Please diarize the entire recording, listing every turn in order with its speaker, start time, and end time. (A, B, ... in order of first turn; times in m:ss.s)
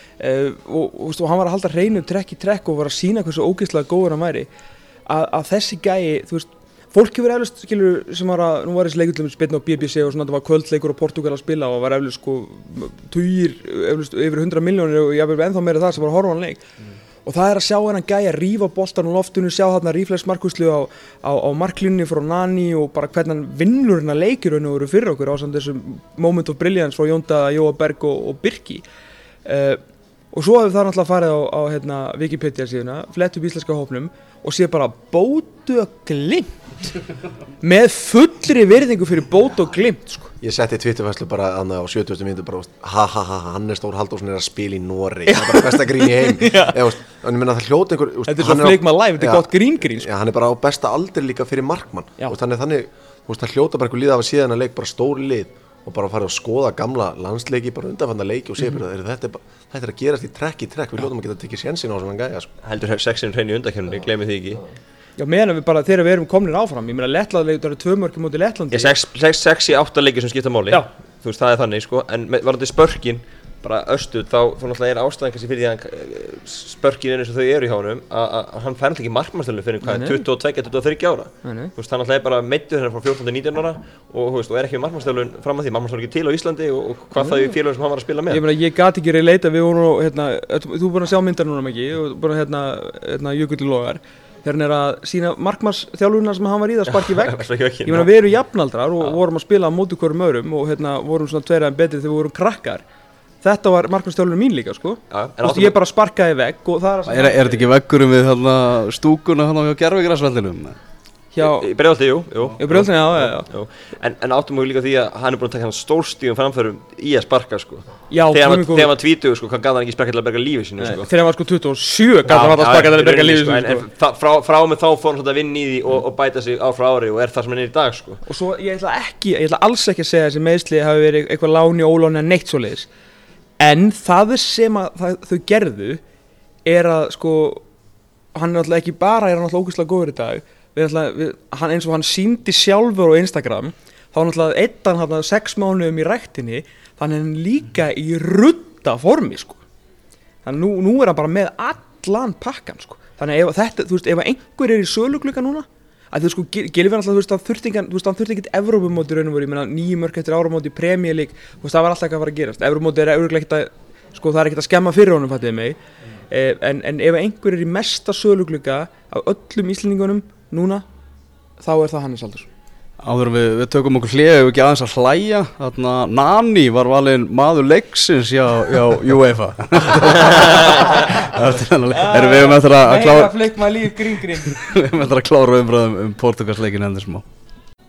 0:00.2-0:04.5 A
0:05.1-0:16.6 A
0:17.2-0:28.8 A
0:29.4-0:29.8 A
0:30.3-0:36.5 A
0:37.6-0:40.3 A
0:40.4-1:02.5 B
0:45.3-0:46.8 A
0:48.2-0:50.1 A
1:02.6-1:04.6 C
1:05.2-1:08.9 A
1:08.7-1:28.4 C
1:19.8-1:20.2 A
1:21.4-1:21.7 A
1:27.2-1:27.5 A
1:28.3-1:42.8 A
1:36.9-1:38.1 C
1:43.4-1:47.6 A
1:45.1-1:45.8 C
1:47.1-1:50.8 D
1:51.3-1:51.7 A
1:51.4-2:01.1 C
1:52.6-1:53.4 A
1:58.1-1:58.9 A
2:00.8-2:03.8 A
2:02.3-2:08.2 C
2:08.2-2:12.9 A
2:13.6-2:16.0 A
2:16.6-2:17.6 A
2:18.3-2:29.6 A
2:30.4-2:45.8 A
2:46.3-2:50.8 A
2:51.6-2:52.5 A
2:53.0-3:03.4 D
3:01.9-3:04.6 A
3:04.6-3:07.2 D